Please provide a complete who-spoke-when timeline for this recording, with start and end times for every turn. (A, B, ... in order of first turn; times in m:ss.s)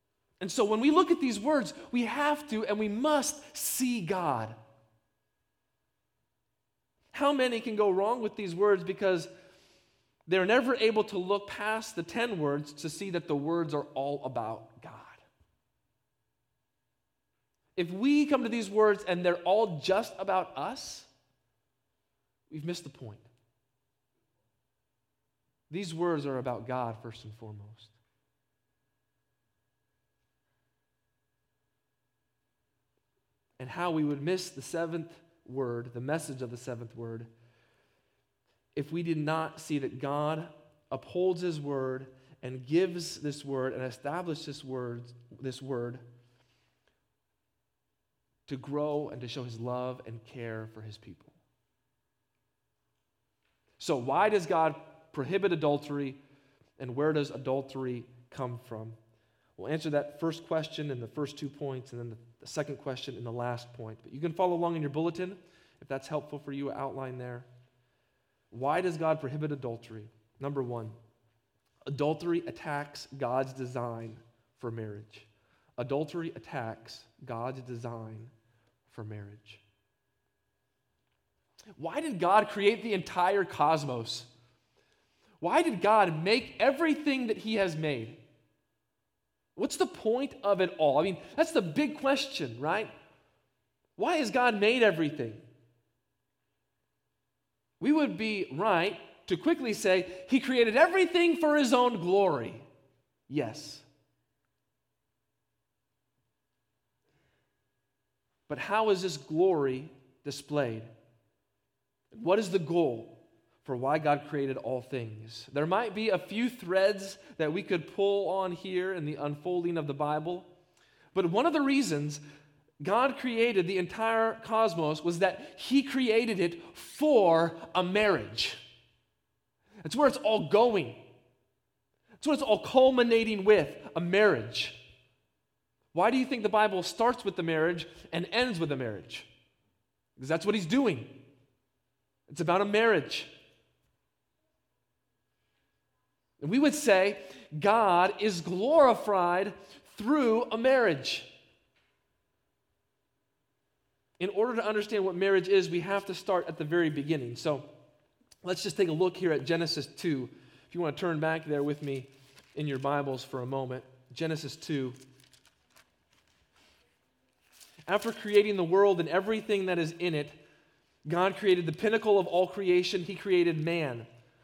0:00.4-0:04.6 A
0:07.1-0:09.3 A
0:10.3-0:15.2 A
0:17.8-0:21.1 A
0:22.5-0:23.3 A
0:25.7-0:28.0 A
0:33.6-0:37.3 A
0:38.8-0:46.0 A
0:48.5-0:51.4 A
0:53.8-0:56.2 A
0:56.8-0:59.0 A
0:59.6-1:07.5 A
1:08.5-1:11.0 A
1:11.9-1:18.3 A
1:18.9-1:19.6 A
1:21.8-1:24.3 A
1:25.4-1:28.2 A
1:29.6-1:32.9 A
1:34.0-1:35.4 A
1:37.8-1:42.7 A
1:43.3-1:43.9 A
1:48.5-1:50.9 A
1:52.1-2:00.5 A
2:01.1-2:02.2 A
2:02.8-2:08.6 A
2:09.8-2:11.1 A
2:12.2-2:14.9 A
2:15.9-2:19.3 A
2:20.2-2:21.2 A
2:22.3-2:23.4 A
2:26.4-2:31.3 A
2:34.2-2:37.7 A
2:38.4-2:45.0 A
2:47.9-2:50.4 A
2:51.1-2:54.1 A